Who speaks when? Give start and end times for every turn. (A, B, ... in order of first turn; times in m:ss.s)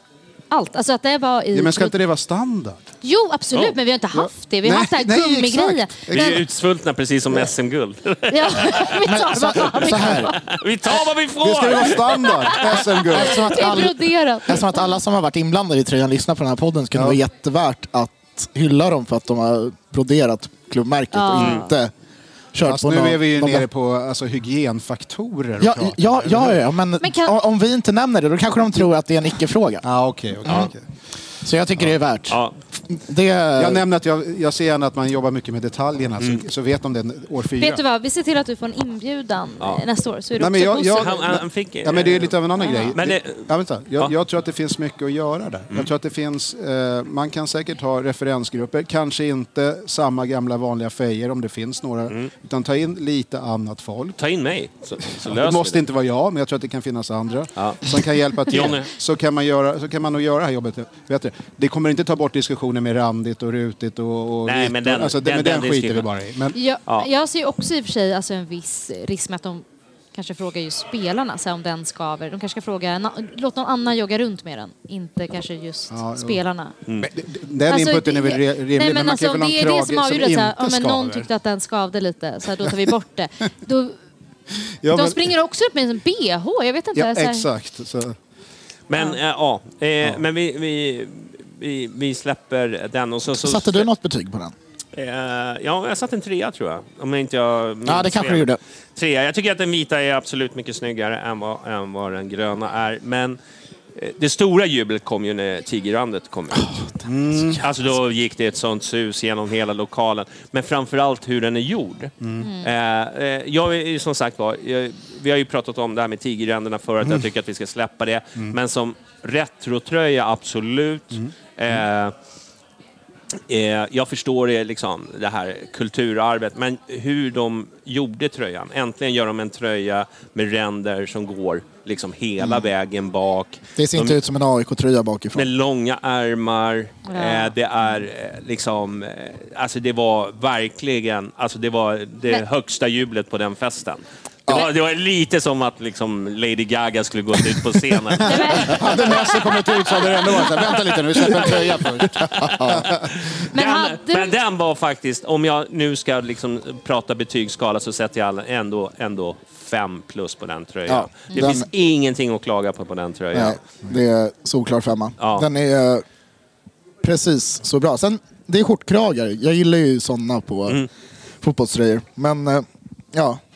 0:00.5-0:02.0 A
0:01.5-0:02.8 B
0:03.0-0:06.1 A
0:04.1-0:06.5 B
0:06.1-0:09.0 C
0:08.3-0:10.4 A
0:09.0-0:10.3 D
0:09.8-0:12.8 C
0:11.4-0:13.7 B
0:12.8-0:21.9 D
0:13.2-0:14.8 A
0:21.1-0:21.7 A
0:21.4-0:21.6 C
0:22.5-0:23.7 D
0:22.6-0:26.6 B
0:25.6-0:29.9 D
0:27.0-0:27.4 A
0:29.8-0:30.8 B
0:30.4-0:30.7 D
0:31.4-0:33.8 D
0:32.3-0:32.6 C
0:33.6-0:37.8 B
0:37.6-0:41.1 A
0:40.4-0:54.2 B
0:41.0-0:42.4 C
0:42.6-0:42.9 A
0:42.9-0:44.1 C
0:54.2-0:55.8 C
0:55.2-1:06.6 B
0:57.6-0:57.9 C
0:58.5-0:58.9 C
1:04.5-1:06.1 C
1:06.5-1:16.7 A
1:15.9-1:16.4 B
1:17.0-1:21.3 B
1:17.7-1:24.0 A
1:24.8-1:25.3 B
1:24.9-1:27.5 A
1:27.0-1:28.2 B
1:28.9-1:33.9 C
1:33.3-1:34.6 D
1:35.0-1:43.4 C
1:37.8-1:38.6 D
1:44.0-1:46.8 C
1:46.5-1:46.9 D
1:47.1-1:47.6 B
1:47.5-2:02.1 C
1:52.2-1:52.5 B
1:52.4-1:52.7 A
2:01.1-2:01.8 B
2:03.5-2:14.2 C
2:12.4-2:12.7 D
2:13.8-2:15.5 D
2:15.4-2:28.9 C
2:17.1-2:17.5 A
2:28.2-2:29.2 A
2:28.6-2:33.0 B
2:28.6-2:32.9 D
2:32.3-2:43.6 C
2:33.5-2:34.4 A
2:40.9-2:41.7 D
2:43.3-2:46.0 D
2:45.2-2:45.5 C
2:47.0-2:50.8 D
2:51.4-2:53.4 D